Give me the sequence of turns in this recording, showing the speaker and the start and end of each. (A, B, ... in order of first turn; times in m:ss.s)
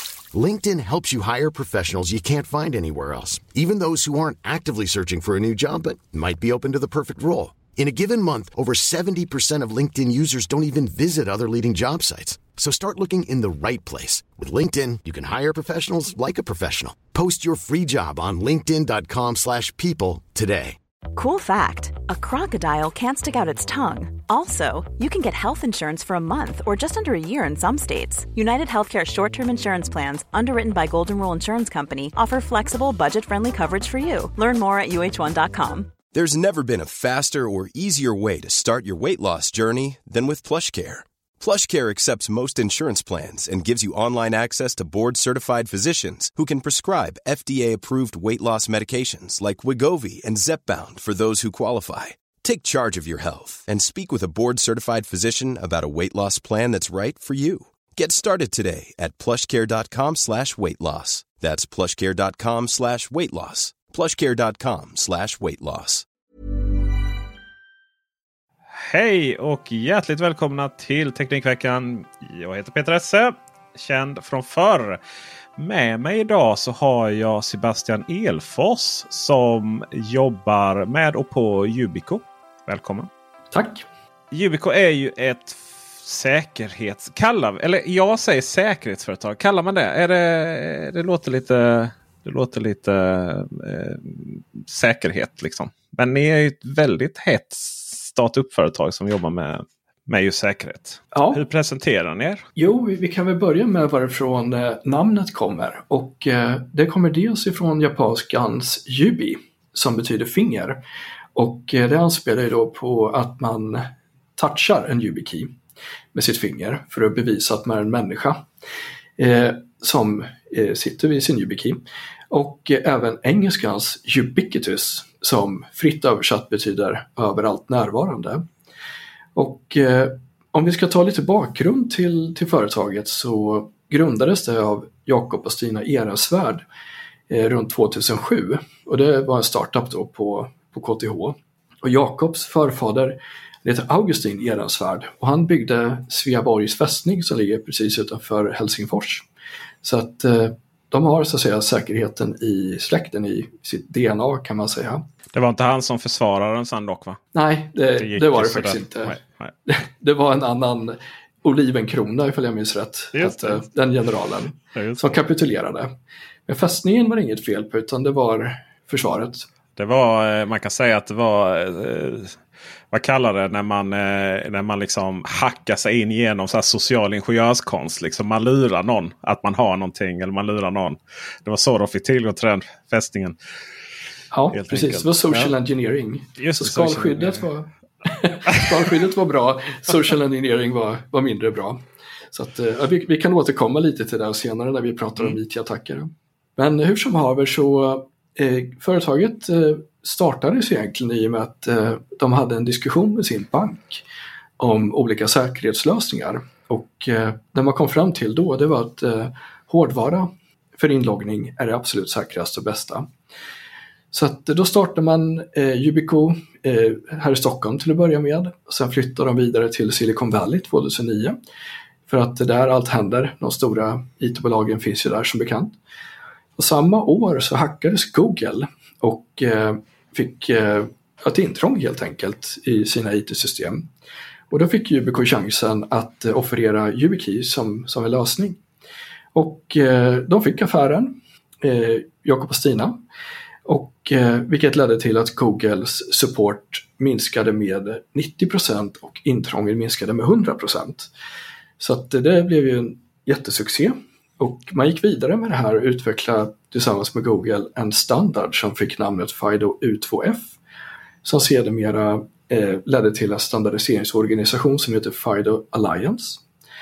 0:00.3-0:20.8 A
0:21.2-0:36.0 B
0:36.1-1:06.0 C
1:08.7-1:15.0 D
1:15.6-1:23.1 D
1:23.5-1:23.8 E
1:24.3-1:42.4 D
1:41.1-1:41.4 E
1:42.6-1:50.8 E
1:51.4-1:55.6 E
1:56.1-1:58.5 E
1:59.2-2:01.8 E
2:02.3-2:08.5 E
2:09.4-2:16.6 E
2:17.3-2:29.3 E
2:29.8-2:35.0 E
2:35.3-2:37.2 D
2:37.3-2:45.9 E
2:38.0-2:39.5 D
2:43.2-2:43.6 D
2:44.8-2:45.2 D
2:46.5-2:49.5 E
2:49.8-2:52.4 D
2:52.9-3:03.4 D
3:04.3-3:24.0 E
3:04.5-3:05.5 D
3:06.4-3:07.5 D
3:24.6-3:33.1 E
3:34.1-3:41.4 E
3:42.1-3:45.8 E
3:46.6-3:53.9 E
3:54.5-3:58.6 E
3:59.3-4:03.0 E
4:03.7-4:11.1 E
4:11.8-4:20.6 E
4:21.2-4:26.4 E